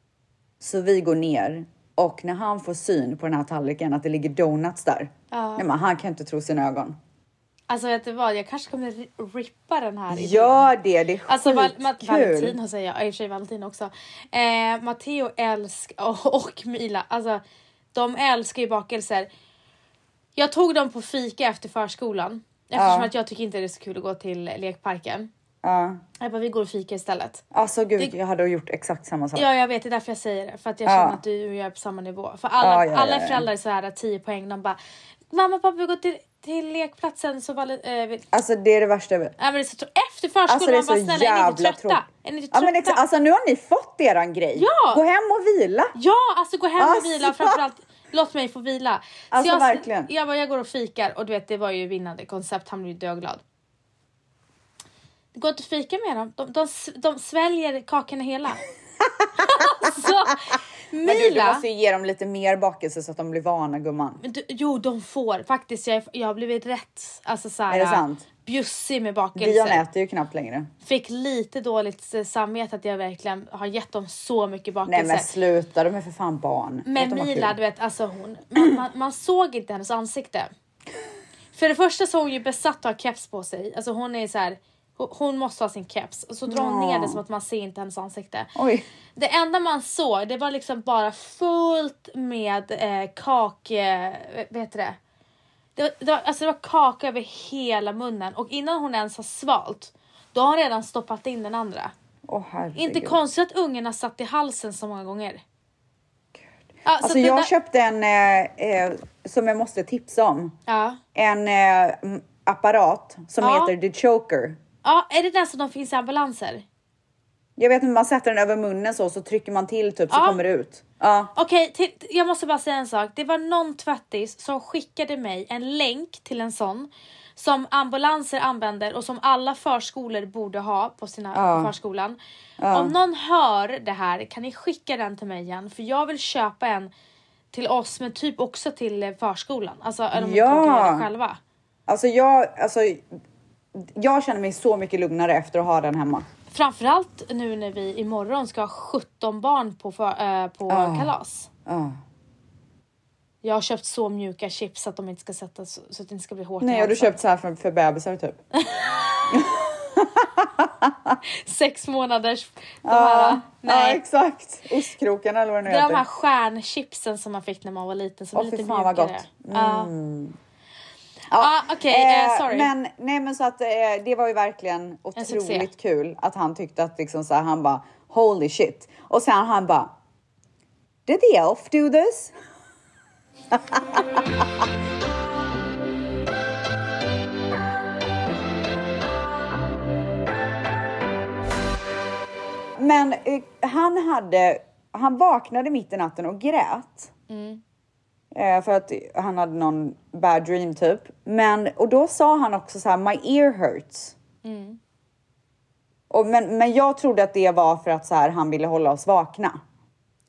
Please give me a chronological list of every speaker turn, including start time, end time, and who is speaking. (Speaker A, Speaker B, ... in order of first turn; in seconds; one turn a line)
Speaker A: 0.6-7.0
Speaker B: 5.3-5.7
Speaker B: 7.7-10.7
Speaker A: 10.1-12.6
Speaker B: 11.3-17.4
Speaker B: 17.9-19.3
Speaker B: 20.4-25.3
Speaker A: 22.7-23.1
Speaker A: 25.6-26.0
Speaker B: 26.2-27.4
Speaker A: 27.5-29.5
Speaker B: 29.3-34.8
Speaker A: 30.9-31.2
Speaker A: 32.6-33.5
Speaker B: 35.3-38.2
Speaker A: 38.3-39.3
Speaker B: 39.4-43.0
Speaker A: 40.5-45.9
Speaker B: 44.5-45.0
Speaker B: 45.9-53.4
Speaker A: 46.8-47.6
Speaker A: 49.3-50.1
Speaker B: 55.3-58.6
Speaker B: 59.4-61.6
Speaker A: 61.0-64.2
Speaker B: 64.2-69.8
Speaker A: 67.7-68.2
Speaker A: 69.3-70.7
Speaker B: 70.8-75.3
Speaker A: 74.8-77.5
Speaker B: 76.8-80.5
Speaker B: 81.5-88.5
Speaker A: 86.5-87.2
Speaker A: 88.5-88.8
Speaker B: 89.2-95.0
Speaker B: 95.8-101.9
Speaker A: 102.3-103.2
Speaker B: 102.8-105.4
Speaker B: 106.8-107.5
Speaker A: 107.0-110.5
Speaker B: 110.7-111.0
Speaker A: 111.1-114.6
Speaker B: 113.4-113.7
Speaker B: 114.8-116.6
Speaker A: 117.6-121.3
Speaker B: 120.1-120.4
Speaker B: 121.3-132.2
Speaker A: 131.3-131.7
Speaker A: 132.6-132.9
Speaker B: 132.7-136.9
Speaker B: 137.5-141.4
Speaker A: 140.1-141.1
Speaker A: 141.9-143.0
Speaker A: 143.7-146.2
Speaker B: 146.5-151.5
Speaker A: 150.7-151.1
Speaker A: 151.7-151.9
Speaker B: 153.4-157.2
Speaker A: 156.6-158.4
Speaker B: 158.6-159.4
Speaker A: 159.3-161.2
Speaker B: 161.4-164.0
Speaker A: 162.8-166.0
Speaker B: 165.7-169.9
Speaker A: 168.3-170.3
Speaker A: 171.3-179.9
Speaker B: 171.3-172.7
Speaker B: 175.2-175.7
Speaker A: 181.1-182.3
Speaker A: 183.5-184.1
Speaker A: 192.8-197.1
Speaker B: 197.3-197.6
Speaker A: 198.3-204.1
Speaker B: 204.4-204.8
Speaker A: 206.1-209.6